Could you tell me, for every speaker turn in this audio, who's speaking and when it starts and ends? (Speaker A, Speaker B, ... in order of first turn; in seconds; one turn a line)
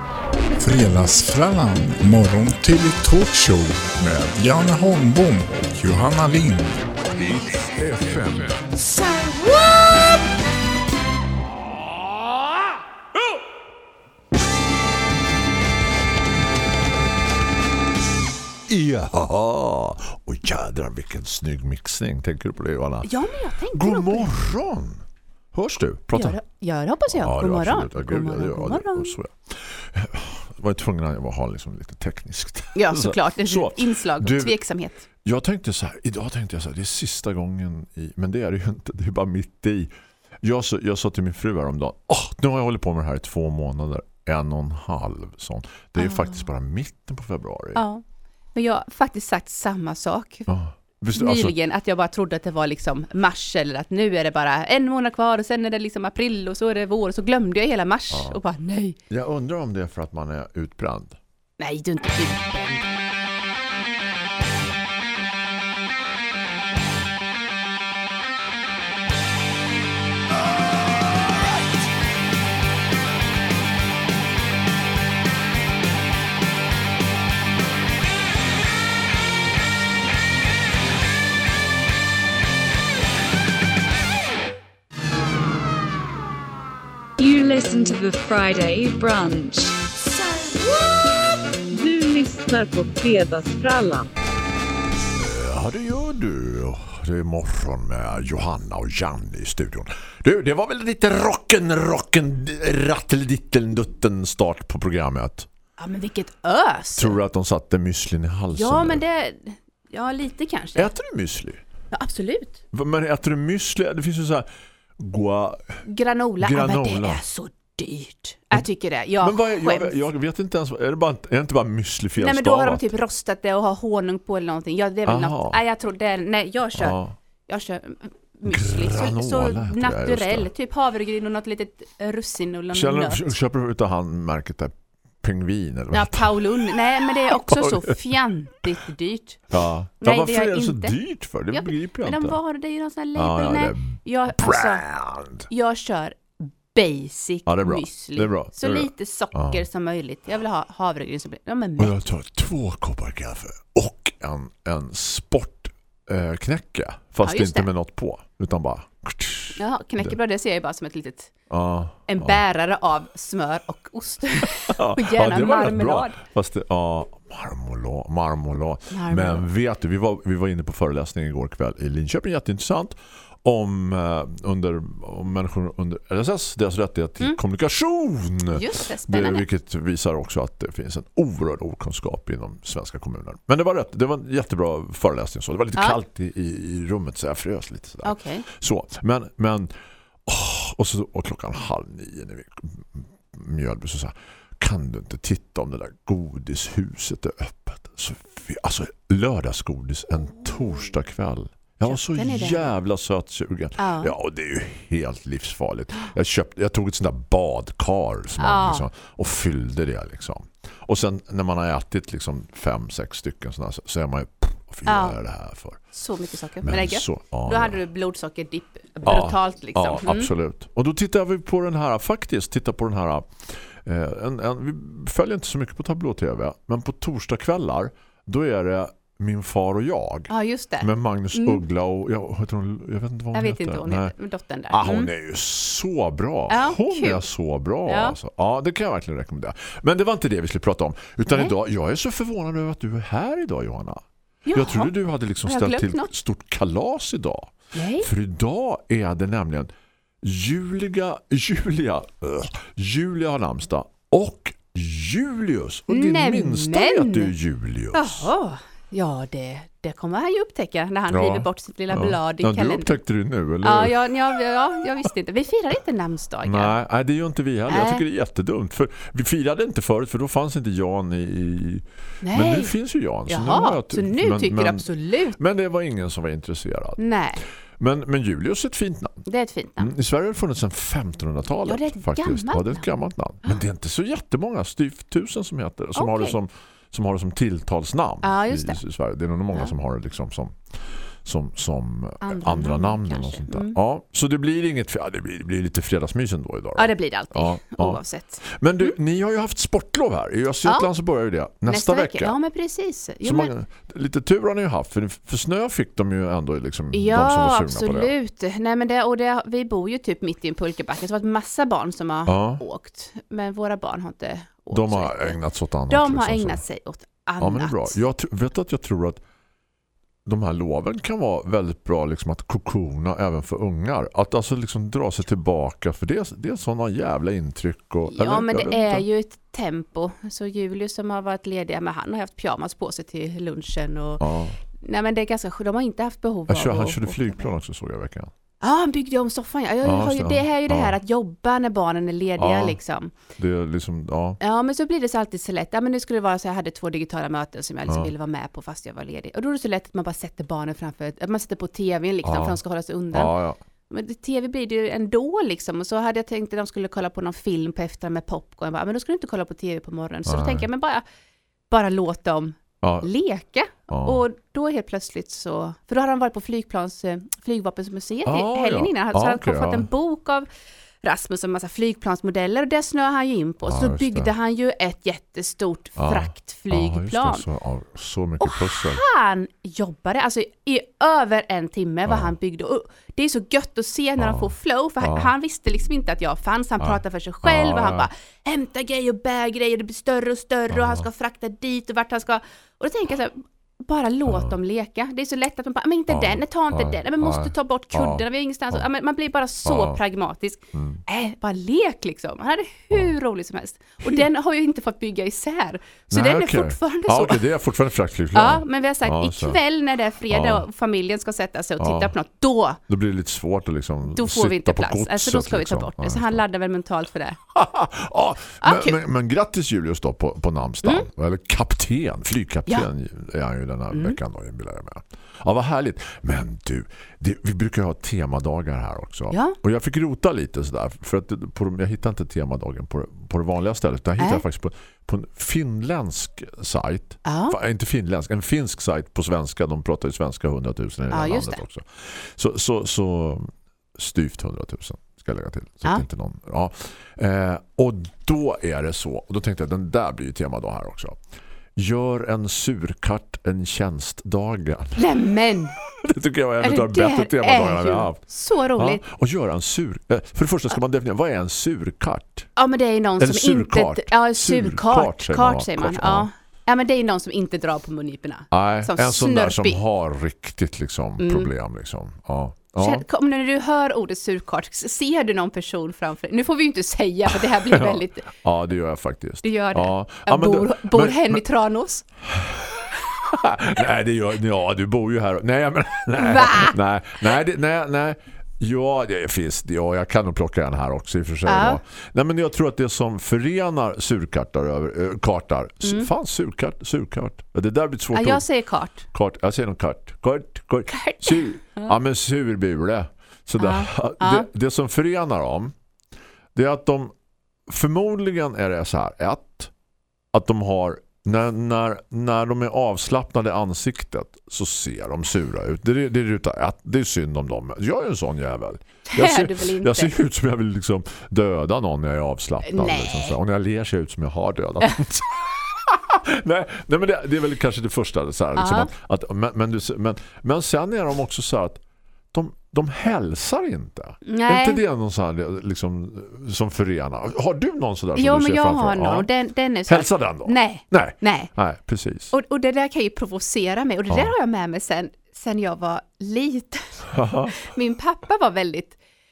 Speaker A: 0.6-10.2
Speaker B: 18.7-23.1
Speaker C: 23.0-24.5
Speaker B: 23.7-26.4
Speaker C: 26.1-29.2
Speaker B: 27.1-34.6
Speaker C: 32.8-35.0
Speaker B: 35.2-47.8
Speaker C: 46.0-46.5
Speaker C: 47.8-48.0
Speaker C: 48.5-50.5
Speaker B: 50.5-51.5
Speaker C: 51.1-59.0
Speaker B: 58.1-58.4
Speaker B: 59.1-61.2
Speaker C: 61.6-62.9
Speaker D: 87.2-89.8
Speaker E: 91.7-94.1
Speaker B: 95.1-105.5
Speaker C: 105.8-107.2
Speaker B: 107.0-109.0
Speaker C: 108.5-110.9
Speaker B: 110.8-111.6
Speaker C: 111.9-112.6
Speaker B: 112.7-114.5
Speaker B: 115.0-115.8
Speaker C: 115.9-120.0
Speaker B: 116.4-117.2
Speaker B: 119.2-122.9
Speaker C: 122.2-133.3
Speaker B: 125.1-125.6
Speaker B: 126.8-127.2
Speaker B: 128.5-130.5
Speaker B: 132.7-138.1
Speaker C: 135.9-139.4
Speaker B: 139.5-142.4
Speaker C: 140.0-141.0
Speaker C: 141.5-144.8
Speaker B: 143.2-145.5
Speaker C: 145.5-151.9
Speaker B: 147.5-149.7
Speaker B: 151.8-160.2
Speaker C: 157.2-157.7
Speaker C: 159.6-161.3
Speaker B: 161.5-162.4
Speaker C: 162.1-166.2
Speaker B: 164.7-189.7
Speaker C: 168.9-169.5
Speaker C: 178.5-179.4
Speaker C: 188.0-188.5
Speaker B: 190.3-215.8
Speaker C: 201.8-202.7
Speaker C: 203.8-204.1
Speaker C: 208.4-208.9
Speaker C: 214.9-215.2
Speaker C: 215.9-220.3
Speaker B: 216.6-217.8
Speaker B: 219.1-234.1
Speaker C: 230.3-231.6
Speaker C: 233.3-235.1
Speaker B: 234.7-258.3
Speaker C: 236.5-237.2
Speaker C: 237.9-238.2
Speaker C: 244.5-244.9
Speaker C: 245.4-246.1
Speaker C: 247.7-248.1
Speaker C: 255.9-257.3
Speaker C: 257.9-263.0
Speaker B: 261.1-264.0
Speaker C: 263.6-266.8
Speaker B: 266.4-277.0
Speaker C: 267.7-268.0
Speaker C: 272.2-272.7
Speaker C: 273.3-275.4
Speaker C: 277.0-277.4
Speaker B: 277.8-279.2
Speaker C: 279.3-279.9
Speaker B: 279.8-290.6
Speaker C: 281.7-282.9
Speaker C: 285.9-286.4
Speaker C: 288.2-288.8
Speaker B: 291.2-302.4
Speaker C: 292.2-293.8
Speaker C: 296.8-298.9
Speaker C: 301.7-303.5
Speaker B: 303.2-308.1
Speaker C: 306.9-315.4
Speaker B: 312.3-312.6
Speaker B: 314.7-316.6
Speaker C: 315.9-318.0
Speaker B: 317.4-319.2
Speaker B: 320.3-329.1
Speaker C: 328.1-337.5
Speaker B: 334.2-334.6
Speaker B: 336.5-338.3
Speaker C: 338.6-343.1
Speaker B: 339.8-341.0
Speaker B: 342.4-342.8
Speaker B: 343.4-344.4
Speaker C: 344.4-353.3
Speaker B: 347.9-348.1
Speaker B: 352.2-352.6
Speaker B: 353.1-353.6
Speaker C: 353.9-361.0
Speaker B: 360.3-360.7
Speaker C: 361.7-370.5
Speaker B: 362.8-363.1
Speaker B: 363.9-364.2
Speaker B: 368.3-369.9
Speaker C: 371.0-377.4
Speaker B: 373.6-374.3
Speaker B: 376.0-379.0
Speaker C: 378.4-407.4
Speaker B: 382.1-382.3
Speaker B: 384.2-385.3
Speaker B: 386.8-388.1
Speaker B: 390.7-391.1
Speaker B: 394.3-394.6
Speaker B: 396.1-398.9
Speaker B: 399.6-400.0
Speaker B: 400.7-401.0
Speaker B: 406.1-409.6
Speaker C: 408.3-412.8
Speaker B: 410.3-410.6
Speaker B: 411.8-412.1
Speaker B: 412.9-416.4
Speaker C: 414.1-417.4
Speaker B: 417.5-451.2
Speaker C: 418.6-419.0
Speaker C: 420.8-421.1
Speaker C: 423.9-424.2
Speaker C: 429.3-429.6
Speaker C: 434.2-434.4
Speaker C: 437.2-437.6
Speaker C: 441.1-441.6
Speaker B: 451.8-455.1
Speaker C: 455.0-455.8
Speaker B: 455.8-458.2
Speaker C: 456.6-459.0
Speaker B: 458.8-462.5
Speaker C: 462.6-469.8
Speaker B: 463.2-466.3
Speaker B: 468.5-473.1
Speaker C: 471.2-471.5
Speaker C: 472.8-478.3
Speaker B: 477.3-481.4
Speaker C: 479.4-482.1
Speaker B: 482.3-498.5
Speaker C: 486.2-486.8
Speaker C: 491.5-491.8
Speaker C: 495.8-496.1
Speaker C: 498.1-499.1
Speaker B: 499.1-505.7
Speaker C: 500.9-501.9
Speaker C: 503.6-504.5
Speaker B: 506.5-507.1
Speaker B: 507.7-509.7
Speaker B: 510.3-531.8
Speaker C: 519.1-520.1
Speaker C: 522.6-523.4
Speaker C: 528.6-528.9
Speaker B: 532.3-539.3
Speaker C: 534.3-534.8
Speaker C: 538.2-541.5
Speaker B: 539.9-542.3
Speaker C: 542.3-549.0
Speaker B: 547.1-547.6